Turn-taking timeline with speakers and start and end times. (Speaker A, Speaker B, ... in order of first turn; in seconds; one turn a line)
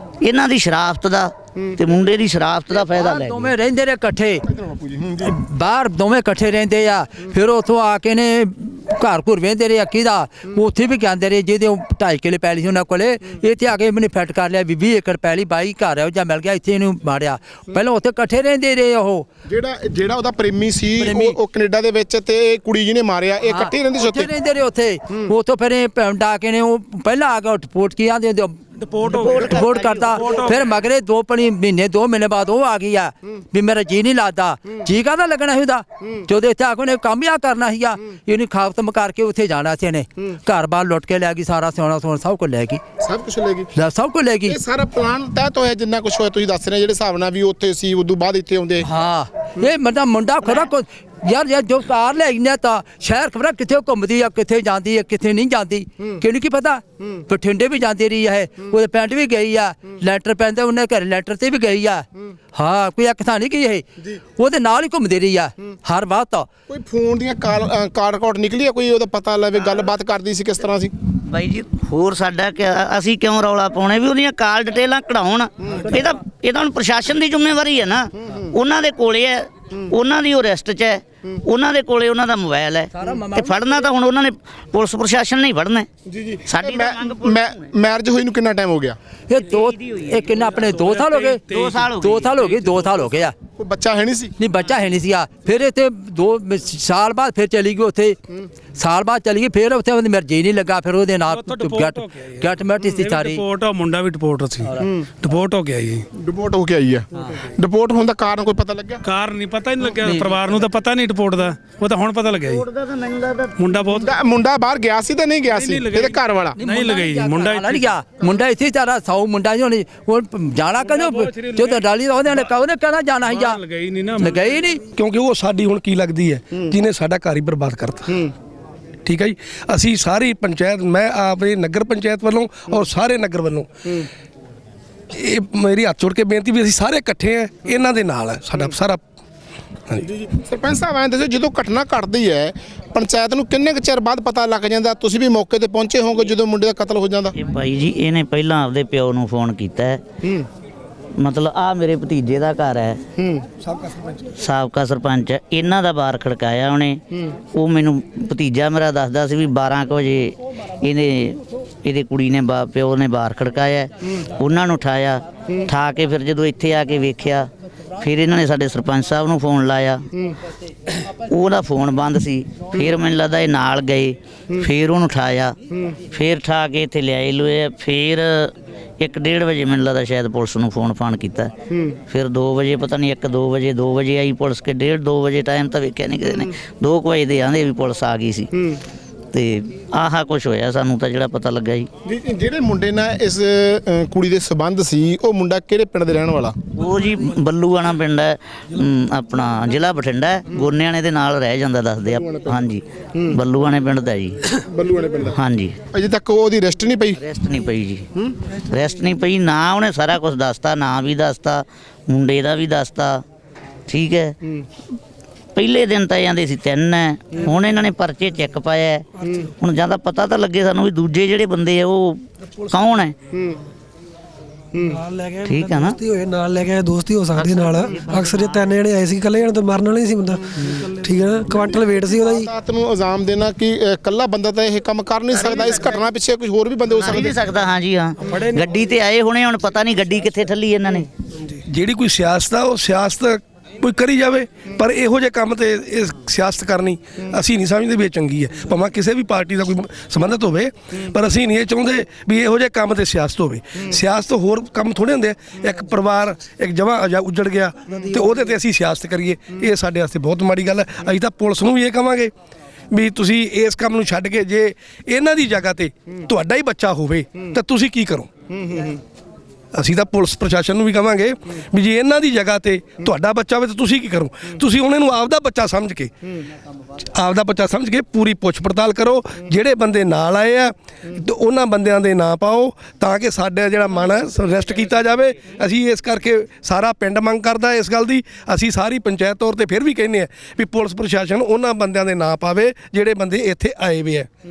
Speaker A: 0.2-3.5
Speaker B: 2.8-4.4
Speaker C: 4.5-5.3
Speaker B: 5.2-19.3
Speaker C: 19.5-24.3
Speaker B: 21.0-21.4
Speaker B: 23.5-28.6
Speaker D: 28.8-30.8
Speaker A: 29.0-30.5
Speaker B: 29.4-42.8
Speaker C: 43.0-43.7
Speaker B: 43.7-44.6
Speaker C: 44.5-48.9
Speaker B: 48.8-63.8
Speaker B: 64.4-66.5
Speaker C: 66.7-70.9
Speaker A: 71.2-85.9
Speaker C: 75.7-76.0
Speaker B: 82.9-83.6
Speaker C: 86.1-89.0
Speaker A: 86.5-87.7
Speaker B: 89.3-91.4
Speaker A: 89.5-90.4
Speaker D: 90.6-92.9
Speaker A: 91.5-92.3
Speaker B: 92.0-93.3
Speaker C: 93.6-94.3
Speaker B: 94.4-98.2
Speaker B: 98.8-103.4
Speaker D: 101.2-106.0
Speaker C: 106.2-109.0
Speaker D: 109.0-112.6
Speaker B: 110.0-110.4
Speaker A: 112.3-113.5
Speaker D: 113.6-114.1
Speaker C: 114.0-116.6
Speaker D: 115.5-117.9
Speaker B: 116.6-123.6
Speaker D: 120.8-122.5
Speaker D: 123.2-124.6
Speaker B: 124.2-124.8
Speaker E: 124.9-128.2
Speaker E: 129.0-133.7
Speaker E: 135.1-139.0
Speaker C: 140.0-147.3
Speaker A: 147.3-150.0
Speaker A: 151.2-153.0
Speaker C: 153.2-153.5
Speaker A: 154.4-157.0
Speaker A: 157.5-170.1
Speaker A: 171.3-175.5
Speaker A: 176.1-181.5
Speaker C: 181.7-182.0
Speaker A: 182.1-188.5
Speaker A: 189.3-191.9
Speaker C: 192.1-196.6
Speaker A: 196.8-204.4
Speaker C: 202.1-202.6
Speaker C: 204.7-205.4
Speaker A: 205.3-205.8
Speaker C: 205.9-207.2
Speaker A: 207.2-208.1
Speaker A: 208.7-213.2
Speaker A: 213.9-214.3
Speaker A: 215.6-219.1
Speaker C: 219.2-219.5
Speaker A: 219.6-223.1
Speaker C: 223.3-223.6
Speaker C: 224.7-225.0
Speaker F: 224.9-232.5
Speaker A: 225.4-226.0
Speaker A: 227.3-228.7
Speaker C: 232.1-237.4
Speaker A: 235.3-236.0
Speaker A: 236.9-241.1
Speaker D: 238.3-238.7
Speaker E: 241.7-262.3
Speaker E: 262.9-268.3
Speaker E: 269.7-276.1
Speaker E: 277.1-294.3